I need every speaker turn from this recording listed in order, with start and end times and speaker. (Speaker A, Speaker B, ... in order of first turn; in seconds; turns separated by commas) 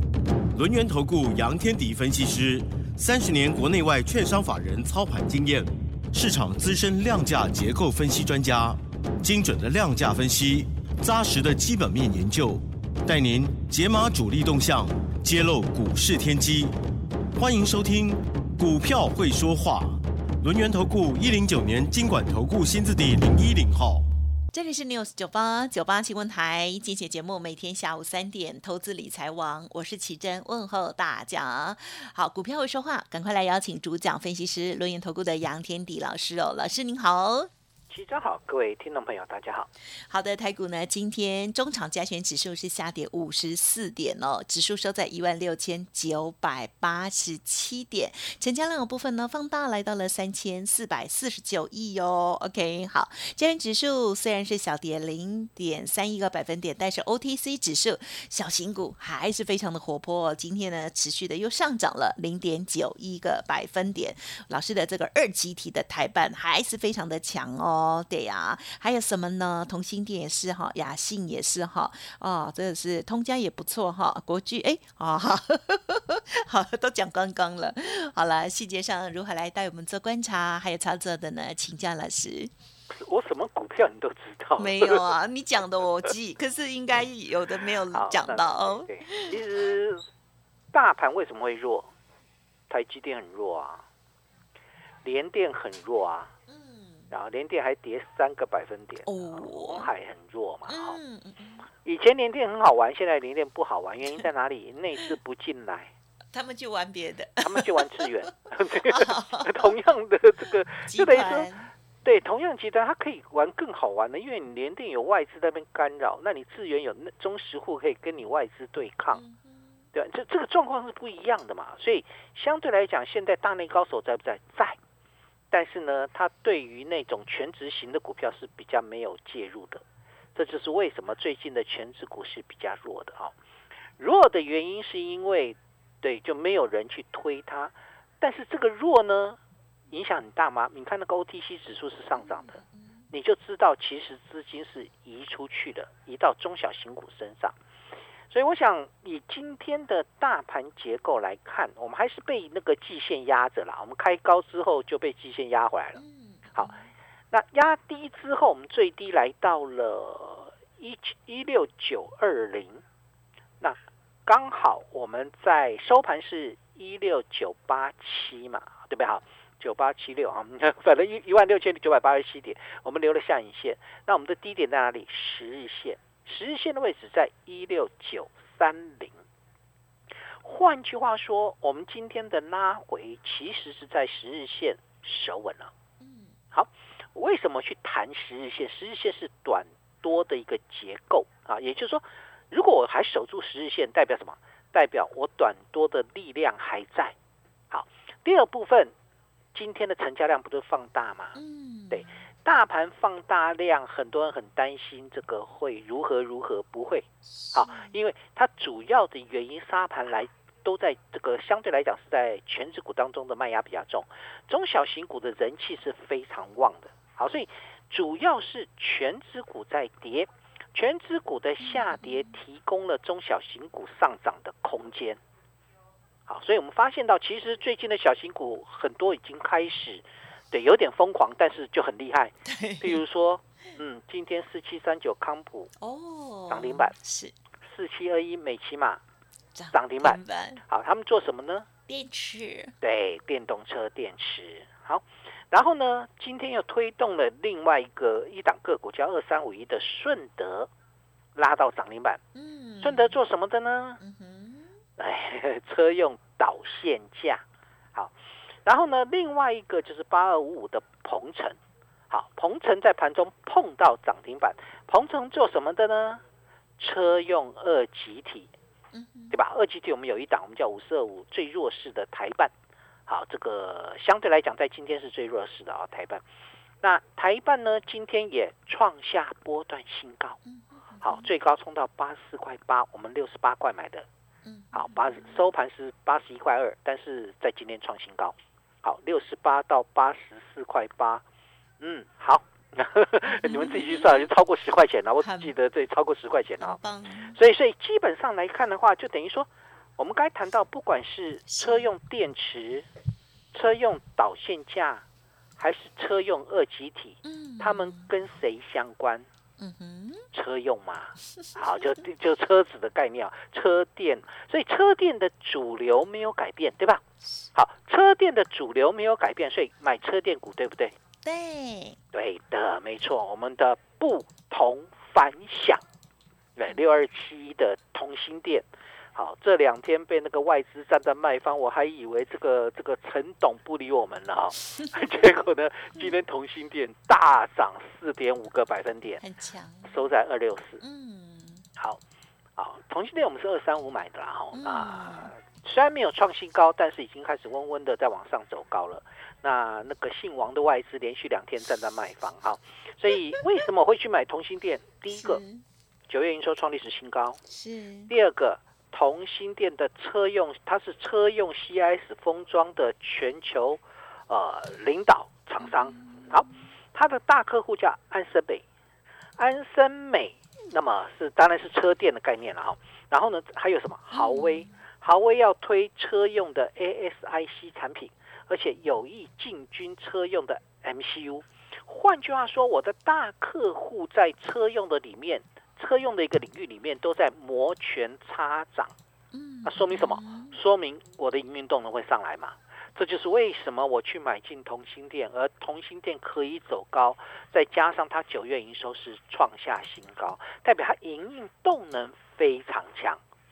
Speaker A: 0.5-16.7, Speaker A: 17.3-24.1, Speaker B: 24.5-37.5, Speaker C: 37.9-39.7, Speaker B: 40.1-82.5, Speaker C: 82.9-85.1, Speaker B: 84.6-89.4, Speaker C: 87.9-90.0, Speaker C: 90.7-91.9, Speaker C: 92.7-93.8, Speaker C: 95.0-96.3, Speaker B: 96.5-97.1, Speaker C: 97.1-101.0, Speaker B: 99.0-99.9, Speaker B: 100.7-101.7, Speaker C: 101.8-105.9, Speaker B: 106.3-109.7, Speaker C: 107.4-111.5, Speaker B: 110.8-111.7, Speaker C: 112.0-119.2, Speaker B: 119.1-119.8, Speaker C: 119.9-124.8, Speaker C: 125.5-129.8, Speaker C: 130.3-133.3, Speaker C: 134.0-139.4, Speaker C: 139.9-147.6, Speaker B: 142.2-143.0, Speaker C: 148.3-156.0, Speaker B: 155.9-156.9, Speaker C: 157.3-162.8, Speaker C: 163.6-179.2, Speaker C: 180.4-185.7, Speaker B: 186.0-186.3, Speaker C: 186.5-197.1, Speaker C: 197.7-198.9, Speaker C: 199.5-201.4, Speaker B: 201.3-202.1, Speaker C: 201.9-225.2, Speaker B: 207.3-207.9, Speaker B: 221.6-222.3, Speaker C: 226.3-235.7, Speaker B: 232.4-233.0, Speaker B: 235.8-237.3, Speaker C: 236.5-236.9, Speaker C: 237.7-239.0, Speaker B: 239.5-240.6, Speaker C: 239.7-241.7, Speaker B: 241.9-242.7, Speaker C: 242.8-250.7, Speaker C: 251.3-252.2, Speaker B: 252.3-253.2, Speaker C: 252.8-254.0, Speaker B: 254.0-254.7, Speaker C: 255.0-257.4, Speaker C: 257.9-261.6, Speaker C: 262.1-266.2, Speaker C: 266.8-268.5, Speaker B: 268.9-269.4, Speaker C: 269.3-272.5, Speaker C: 273.1-276.2, Speaker C: 276.8-280.4, Speaker B: 280.4-281.3, Speaker C: 281.0-284.1, Speaker B: 284.4-285.3, Speaker C: 284.7-291.2, Speaker C: 291.8-296.8, Speaker B: 293.3-294.3, Speaker B: 295.2-295.5, Speaker B: 296.6-297.3, Speaker C: 297.3-302.9, Speaker B: 301.5-301.9, Speaker C: 303.5-305.0, Speaker C: 305.6-309.3, Speaker B: 307.2-308.1, Speaker B: 309.6-310.3, Speaker C: 310.3-317.0, Speaker B: 311.3-311.8, Speaker C: 317.5-320.9, Speaker B: 321.2-322.0, Speaker C: 322.1-325.8, Speaker C: 326.6-339.2, Speaker B: 339.2-340.0, Speaker C: 339.8-340.8, Speaker B: 340.8-341.6, Speaker C: 342.6-355.4, Speaker B: 344.5-345.3, Speaker B: 355.1-355.6, Speaker C: 356.1-357.4, Speaker B: 357.5-358.1, Speaker C: 358.1-368.6, Speaker B: 365.6-366.5, Speaker C: 369.4-388.9, Speaker B: 374.1-374.7, Speaker B: 389.3-390.6, Speaker C: 389.6-403.2